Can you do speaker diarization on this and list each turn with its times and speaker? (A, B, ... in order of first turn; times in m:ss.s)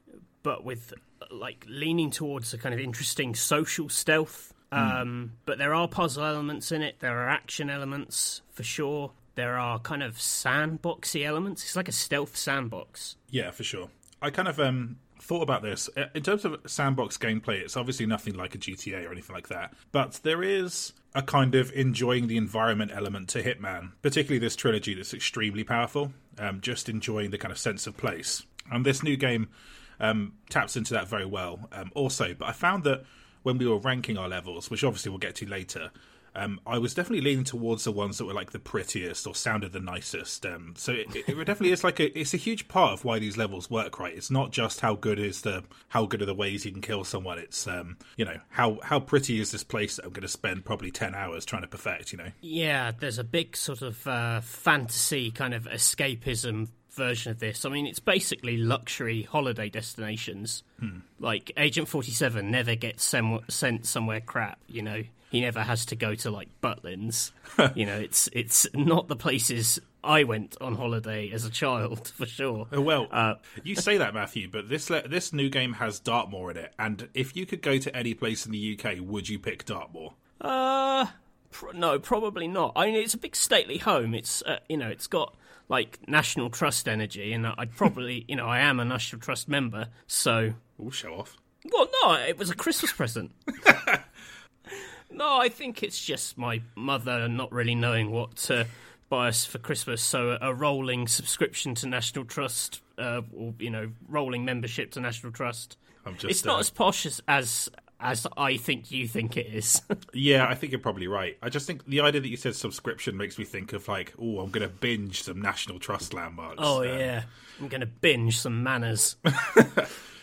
0:00.4-0:13.2 A
0:04.8-0:05.0 B
0:13.3-0:52.4 B
0:52.4-1:00.6 A
1:01.2-1:13.5 A
1:12.7-1:20.2 B
1:20.4-1:30.6 A
1:30.8-1:31.4 B
1:31.6-1:33.5 A
1:33.6-1:34.0 B
1:34.7-1:50.0 A
1:46.0-1:46.7 B
1:50.1-1:57.1 B
1:56.6-1:59.2 A
1:59.4-1:59.9 B